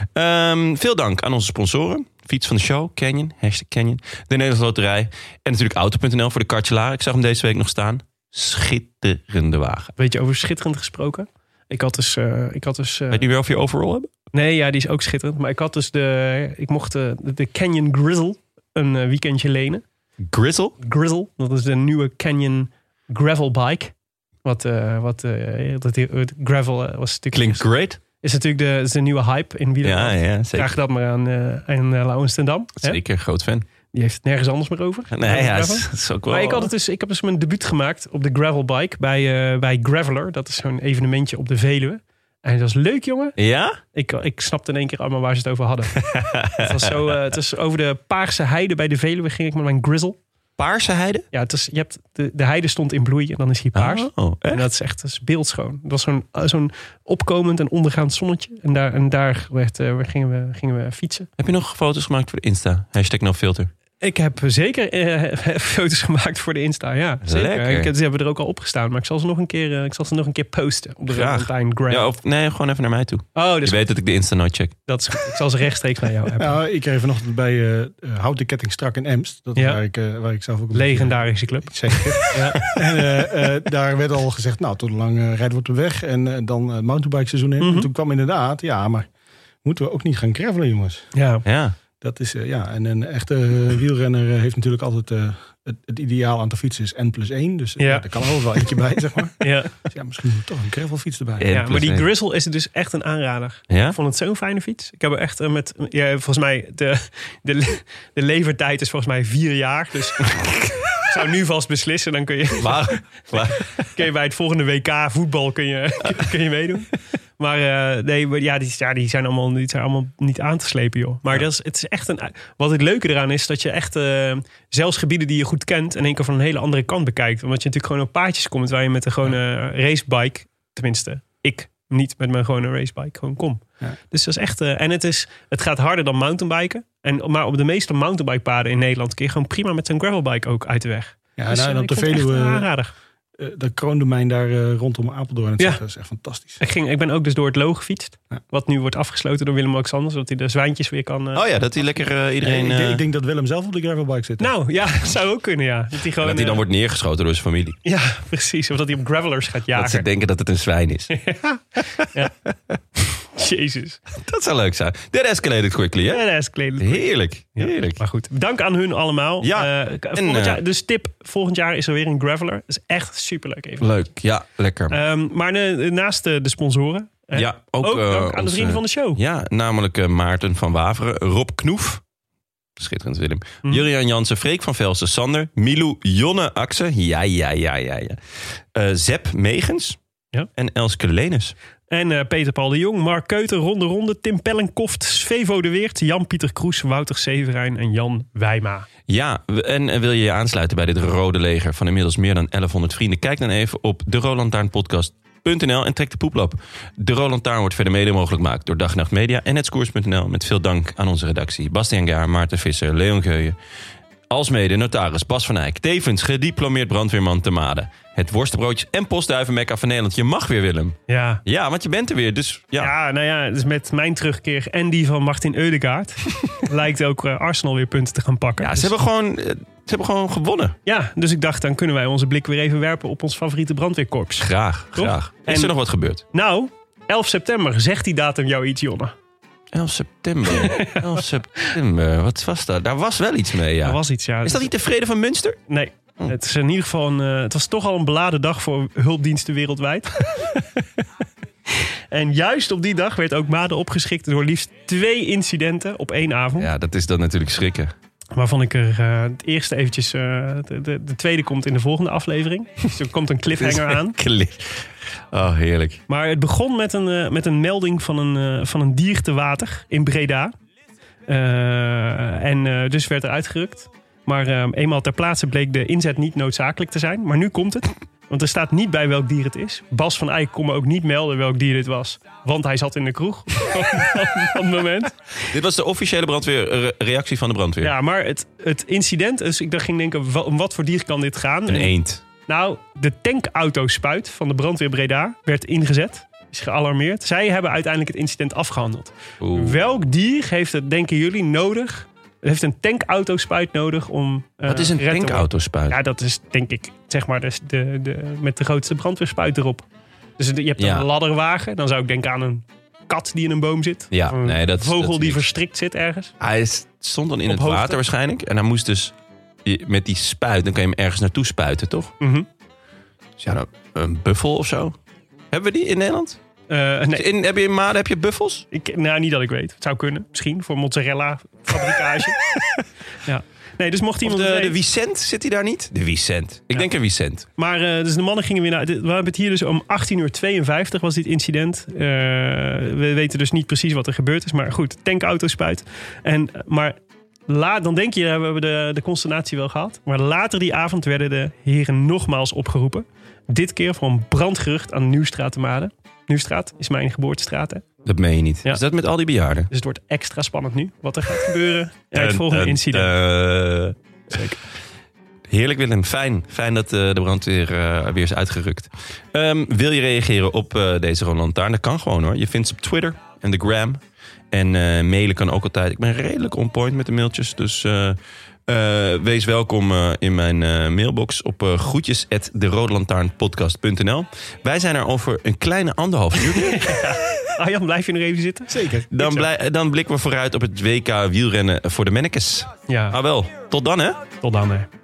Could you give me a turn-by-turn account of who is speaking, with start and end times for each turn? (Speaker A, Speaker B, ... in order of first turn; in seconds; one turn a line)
Speaker A: 0.1-9.9
Speaker B: 9.9-13.3
Speaker A: 13.1-14.1
Speaker B: 14.3-19.8
Speaker A: 20.2-20.8
Speaker B: 20.8-33.0
Speaker A: 27.3-28.0
Speaker A: 29.8-30.7
Speaker A: 32.8-33.6
Speaker B: 33.9-43.4
Speaker A: 35.1-36.7
Speaker A: 43.4-43.8
Speaker B: 43.9-50.2
Speaker A: 46.0-46.9
Speaker A: 50.6-51.3
Speaker B: 51.3-61.3
Speaker A: 53.7-54.7
Speaker A: 61.4-63.7
Speaker B: 64.0-72.1
Speaker A: 67.2-67.9
Speaker A: 71.1-74.8
Speaker B: 73.3-73.9
Speaker B: 74.9-76.6
Speaker C: 76.4-89.1
Speaker B: 79.5-79.8
Speaker B: 80.7-82.6
Speaker B: 87.6-87.9
Speaker C: 89.6-91.1
Speaker B: 91.1-91.4
Speaker A: 91.4-91.7
Speaker C: 92.0-101.5
Speaker B: 97.8-98.0
Speaker B: 99.4-99.8
Speaker A: 101.4-102.1
Speaker B: 101.5-110.4
Speaker A: 103.7-104.0
Speaker A: 110.3-111.0
Speaker B: 111.0-113.0
Speaker A: 112.6-113.9
Speaker B: 113.9-142.9
Speaker C: 141.4-142.7
Speaker C: 143.4-146.6
Speaker B: 146.6-151.4
Speaker A: 151.3-153.0
Speaker C: 152.4-154.5
Speaker B: 154.4-156.6
Speaker A: 156.2-157.8
Speaker B: 157.8-160.1
Speaker A: 159.7-161.2
Speaker B: 161.1-162.3
Speaker B: 163.3-164.0
Speaker A: 164.1-166.2
Speaker B: 166.1-174.0
Speaker A: 166.8-168.0
Speaker A: 169.4-170.6
Speaker A: 173.8-175.0
Speaker B: 174.9-179.2
Speaker A: 177.3-182.0
Speaker A: 182.8-188.2
Speaker A: 188.7-190.0
Speaker A: 190.5-191.5
Speaker B: 191.9-198.9
Speaker A: 199.1-213.6
Speaker A: 214.3-222.9
Speaker B: 221.1-221.4
Speaker B: 222.8-228.9
Speaker A: 228.6-230.8
Speaker B: 230.8-235.7
Speaker A: 234.4-236.2
Speaker B: 236.3-239.1
Speaker A: 239.7-245.6
Speaker B: 240.4-241.7
Speaker B: 243.8-244.7
Speaker B: 245.7-250.2
Speaker B: 251.7-256.7
Speaker A: 256.6-257.9
Speaker B: 258.3-264.2
Speaker A: 263.6-266.0
Speaker B: 266.1-270.5
Speaker B: 271.3-285.5
Speaker A: 285.5-287.9
Speaker B: 287.8-309.8
Speaker A: 291.7-292.2
Speaker A: 299.4-299.8
Speaker A: 304.6-306.0
Speaker B: 310.4-316.3
Speaker A: 310.8-311.1
Speaker A: 314.1-315.4
Speaker A: 316.4-322.1
Speaker B: 317.4-318.0
Speaker B: 322.2-322.5
Speaker A: 323.4-325.0
Speaker A: 325.5-326.4
Speaker B: 326.7-327.3
Speaker A: 327.1-328.7
Speaker B: 328.7-332.4
Speaker A: 332.0-332.8
Speaker B: 333.2-334.8
Speaker A: 334.2-337.5
Speaker B: 337.6-347.0
Speaker B: 347.5-357.8
Speaker A: 358.0-359.7
Speaker B: 359.7-363.1
Speaker A: 362.1-364.0
Speaker B: 364.3-364.6
Speaker A: 365.5-374.0
Speaker A: 374.5-387.1
Speaker B: 386.4-389.5
Speaker C: 388.7-389.1
Speaker A: 389.1-394.2
Speaker B: 392.9-393.2
Speaker B: 394.4-394.9